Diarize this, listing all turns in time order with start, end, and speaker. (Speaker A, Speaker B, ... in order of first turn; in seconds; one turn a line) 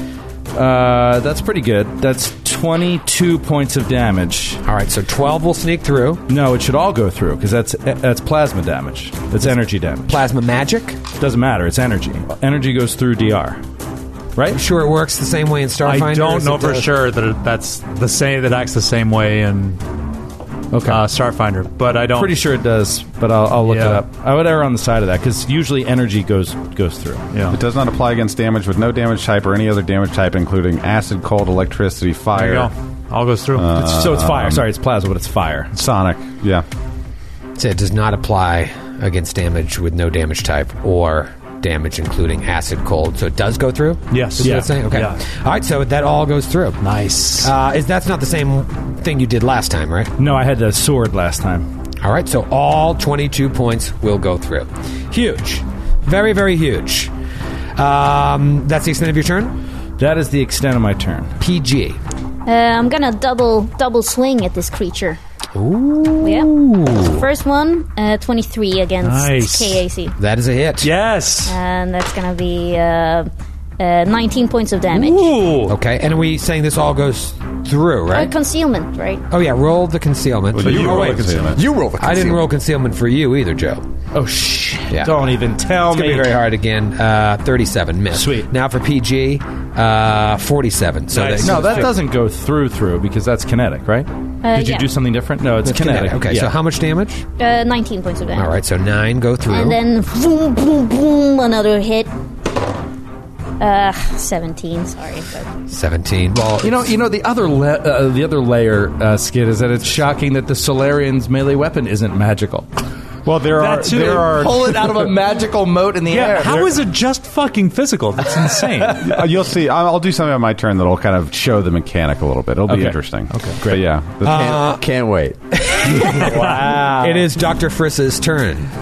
Speaker A: 0.5-4.6
Speaker B: 4.6-6.2
Speaker A: 6.3-10.2
Speaker B: 10.1-11.0
Speaker A: 11.2-13.6
Speaker A: 14.3-14.6
Speaker B: 14.5-16.9
Speaker C: 15.8-19.8
Speaker A: 20.7-21.1
Speaker C: 20.8-22.4
Speaker A: 22.0-27.3
Speaker C: 23.6-24.0
Speaker C: 27.3-27.6
Speaker D: 27.5-32.7
Speaker C: 32.3-33.8
Speaker D: 33.5-34.7
Speaker A: 33.8-35.7
Speaker D: 35.7-36.6
Speaker B: 37.5-46.8
Speaker C: 44.1-45.2
Speaker A: 44.4-44.8
Speaker C: 46.8-47.5
Speaker B: 47.4-50.1
Speaker A: 50.2-51.6
Speaker B: 52.0-57.1
Speaker B: 57.8-59.5
Speaker A: 60.0-61.4
Speaker B: 61.4-62.0
Speaker E: 62.5-65.2
Speaker B: 65.5-67.2
Speaker E: 66.2-70.1
Speaker C: 69.0-69.8
Speaker B: 70.2-70.9
Speaker C: 70.8-71.6
Speaker E: 71.4-75.3
Speaker C: 74.9-75.8
Speaker B: 75.7-78.3
Speaker E: 78.1-79.2
Speaker B: 79.3-83.8
Speaker D: 80.5-81.6
Speaker C: 80.7-81.4
Speaker F: 81.5-82.5
Speaker A: 84.1-86.4
Speaker B: 84.9-85.3
Speaker B: 85.8-91.9
Speaker A: 88.1-88.5
Speaker C: 91.1-92.0
Speaker A: 91.4-96.5
Speaker E: 94.4-94.9
Speaker B: 95.6-97.2
Speaker E: 97.4-98.5
Speaker B: 98.3-99.8
Speaker E: 99.5-102.1
Speaker E: 103.6-105.5
Speaker B: 105.7-107.0
Speaker A: 106.6-112.7
Speaker D: 113.2-115.1
Speaker C: 113.5-114.4
Speaker A: 113.8-116.8
Speaker C: 116.1-119.0
Speaker A: 118.3-119.2
Speaker D: 119.0-124.6
Speaker A: 122.7-123.0
Speaker C: 123.3-123.6
Speaker A: 123.6-123.8
Speaker B: 124.2-124.8
Speaker F: 124.2-125.4
Speaker B: 125.5-126.5
Speaker A: 126.0-127.2
Speaker C: 126.2-127.2
Speaker B: 127.0-128.7